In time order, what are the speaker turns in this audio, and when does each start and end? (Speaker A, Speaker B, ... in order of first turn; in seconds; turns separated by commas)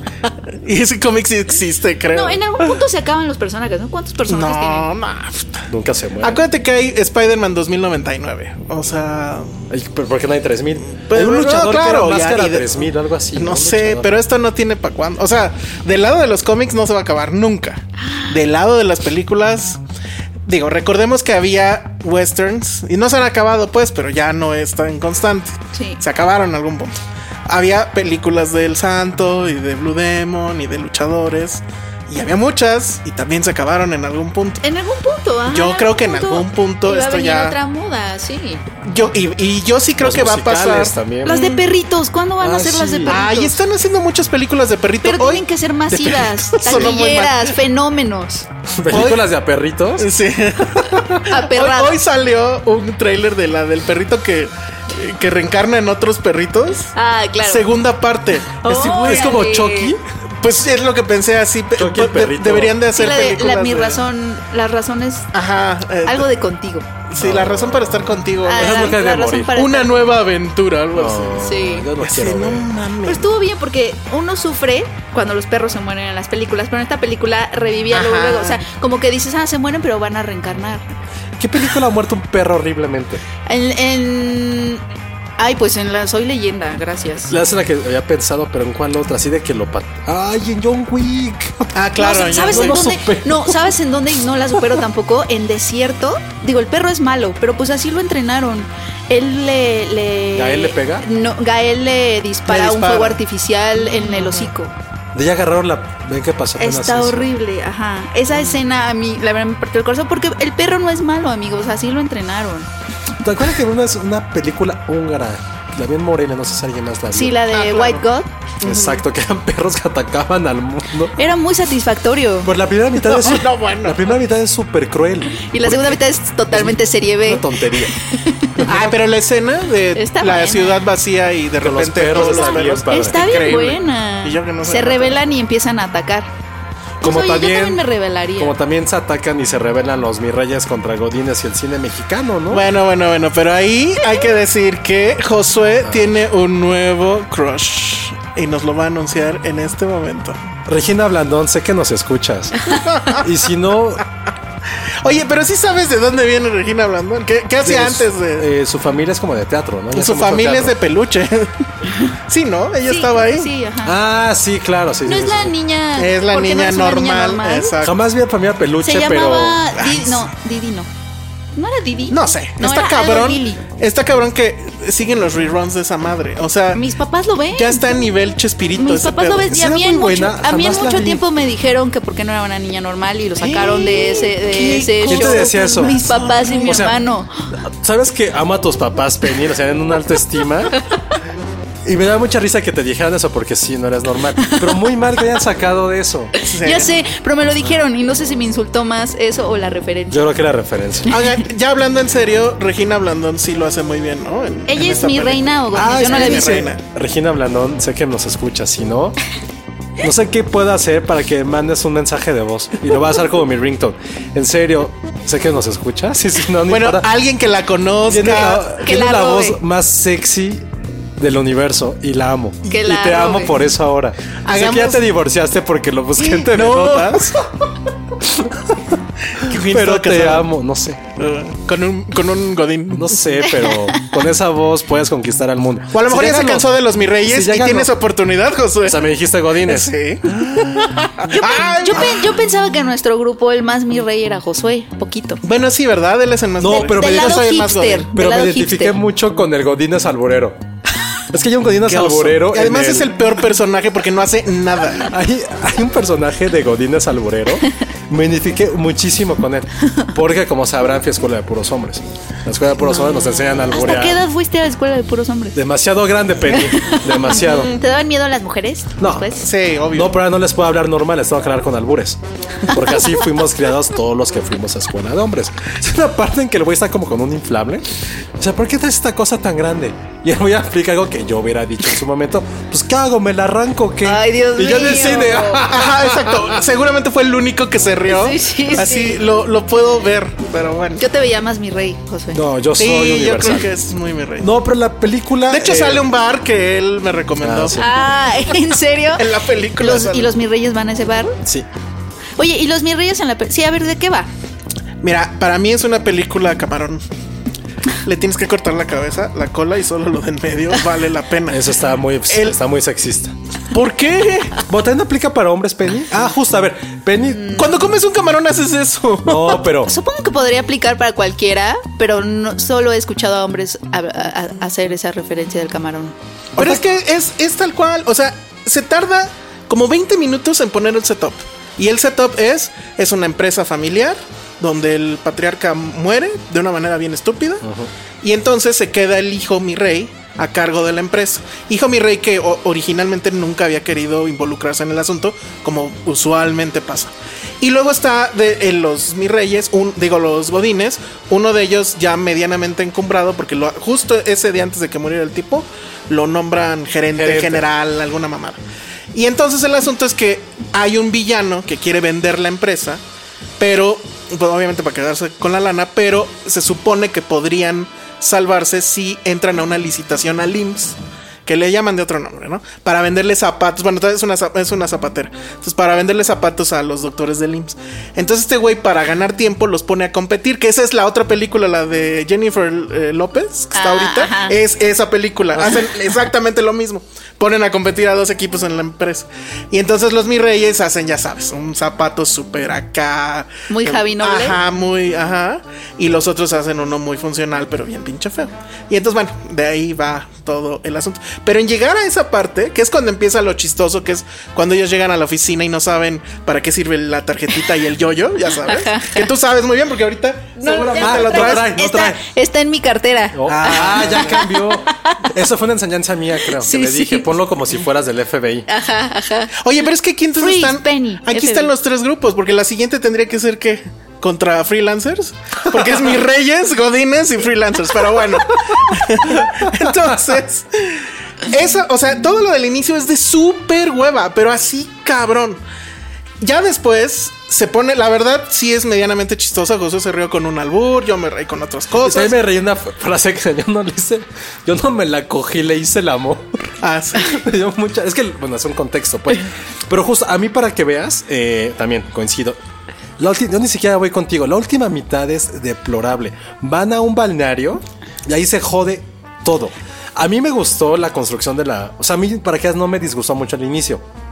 Speaker A: 0.6-2.8, Speaker B: 2.1-4.9, Speaker A: 4.3-5.7, Speaker C: 5.7-6.4, Speaker A: 6.2-9.6, Speaker C: 9.7-14.2, Speaker A: 10.9-19.8, Speaker A: 20.5-26.9, Speaker B: 25.7-26.0, Speaker A: 27.5-34.6, Speaker B: 34.6-38.6, Speaker A: 35.5-37.6, Speaker A: 38.8-41.5, Speaker C: 40.0-41.5, Speaker B: 41.2-43.6, Speaker C: 42.4-43.2, Speaker A: 43.1-45.4, Speaker B: 45.0-48.5, Speaker A: 46.0-47.5, Speaker C: 46.6-47.0, Speaker C: 48.8-50.1, Speaker A: 48.9-49.2, Speaker A: 50.0-56.9, Speaker C: 50.8-51.2, Speaker B: 51.3-52.0, Speaker B: 57.0-57.7, Speaker A: 57.5-59.5, Speaker B: 58.6-60.0, Speaker C: 58.7-60.0, Speaker A: 60.4-64.0, Speaker C: 61.8-62.8, Speaker B: 62.9-65.3, Speaker A: 65.3-66.3, Speaker B: 66.0-66.9, Speaker A: 67.1-73.3, Speaker C: 67.2-67.9, Speaker B: 68.5-70.2, Speaker C: 68.5-69.5, Speaker C: 70.9-72.7, Speaker B: 71.4-71.9, Speaker B: 73.0-80.9, Speaker A: 77.9-78.6, Speaker C: 81.4-83.2, Speaker B: 83.5-84.8, Speaker B: 85.4-87.3, Speaker C: 87.3-91.7, Speaker A: 91.8-92.9, Speaker B: 92.0-104.7, Speaker C: 92.3-93.7, Speaker C: 100.3-101.1, Speaker A: 102.5-103.2, Speaker A: 104.1-104.5, Speaker C: 105.1-107.3, Speaker B: 106.6-112.7, Speaker C: 113.2-117.4, Speaker B: 117.1-118.3, Speaker A: 117.5-118.0, Speaker C: 118.6-121.2, Speaker A: 118.6-119.0, Speaker B: 121.2-122.5, Speaker C: 122.4-125.9, Speaker A: 123.1-124.2, Speaker B: 125.3-128.7, Speaker C: 126.5-128.0, Speaker C: 128.6-128.9, Speaker A: 128.7-135.2, Speaker B: 129.9-130.9, Speaker C: 131.6-133.2, Speaker B: 132.1-136.3, Speaker C: 137.0-137.8, Speaker B: 137.0-138.6, Speaker C: 138.4-142.7, Speaker A: 142.5-150.5, Speaker C: 145.8-146.1, Speaker C: 150.7-152.6, Speaker A: 152.8-153.2, Speaker C: 153.2-154.0, Speaker A: 155.0-158.5, Speaker C: 157.6-160.7, Speaker A: 159.9-161.5, Speaker A: 162.3-163.5, Speaker B: 162.9-164.0, Speaker C: 163.8-165.5, Speaker B: 165.1-167.8, Speaker A: 166.0-168.0, Speaker C: 167.8-169.6, Speaker B: 168.8-170.9, Speaker A: 169.8-170.2, Speaker B: 171.6-173.6, Speaker A: 172.1-176.8, Speaker B: 176.7-178.1, Speaker A: 177.5-179.7, Speaker B: 178.8-187.6, Speaker C: 179.6-181.2, Speaker C: 183.4-187.0, Speaker A: 185.0-186.2, Speaker C: 187.8-190.8, Speaker C: 191.8-196.3, Speaker B: 194.4-194.9, Speaker B: 196.4-200.2, Speaker A: 196.4-196.9, Speaker C: 200.1-201.1, Speaker B: 201.1-201.4, Speaker A: 201.1-206.8, Speaker B: 204.7-206.7, Speaker C: 205.7-209.2, Speaker C: 210.0-217.1, Speaker A: 216.7-218.9, Speaker C: 218.1-220.7, Speaker B: 218.8-219.6, Speaker C: 221.2-227.2, Speaker B: 222.7-223.6, Speaker A: 224.4-225.1, Speaker A: 226.2-227.4, Speaker C: 228.2-228.6, Speaker A: 229.4-230.5, Speaker C: 229.5-231.0, Speaker A: 231.2-233.6, Speaker C: 232.9-236.7, Speaker A: 235.9-242.4, Speaker C: 237.3-237.9, Speaker C: 238.8-239.9, Speaker B: 241.3-245.4, Speaker A: 245.4-248.1, Speaker C: 246.6-247.5, Speaker B: 246.7-249.0, Speaker C: 248.1-250.6, Speaker C: 251.3-253.1, Speaker A: 251.8-255.1, Speaker C: 255.1-264.2, Speaker B: 262.8-265.6, Speaker C: 265.6-267.7, Speaker B: 266.5-269.5, Speaker C: 269.0-269.3, Speaker A: 269.4-270.2, Speaker C: 269.9-277.9, Speaker B: 272.7-273.2, Speaker C: 278.4-286.6, Speaker B: 284.0-285.6, Speaker A: 284.6-291.0, Speaker B: 288.1-289.2, Speaker B: 291.0-292.4, Speaker C: 292.3-293.7, Speaker A: 292.8-294.5, Speaker C: 294.4-296.1, Speaker A: 295.5-297.8, Speaker C: 297.4-297.9, Speaker B: 297.7-301.4, Speaker A: 299.2-300.3, Speaker B: 302.4-304.3, Speaker A: 305.0-307.0, Speaker A: 308.0-311.7, Speaker C: 311.5-313.4, Speaker A: 312.3-312.6, Speaker A: 313.7-314.7, Speaker C: 314.7-317.6, Speaker A: 317.5-319.6, Speaker C: 319.2-320.0, Speaker B: 319.9-326.1, Speaker A: 326.6-337.7, Speaker C: 337.6-337.9, Speaker A: 338.2-358.6, Speaker C: 357.1-357.7, Speaker A: 359.1-363.0, Speaker A: 363.6-411.8, Speaker B: 383.7-384.6, Speaker C: 385.6-385.8, Speaker B: 393.7-394.6, Speaker B: 408.6-409.3, Speaker B: 410.6-415.3, Speaker C: 410.7-412.2, Speaker C: 413.3-418.7, Speaker A: 413.5-414.5, Speaker B: 416.5-417.3, Speaker B: 418.7-419.5, Speaker A: 419.6-435.6, Speaker B: 420.4-421.7, Speaker A: 436.4-442.4, Speaker C: 442.0-452.6, Speaker A: 446.8-447.4, Speaker C: 453.2-464.0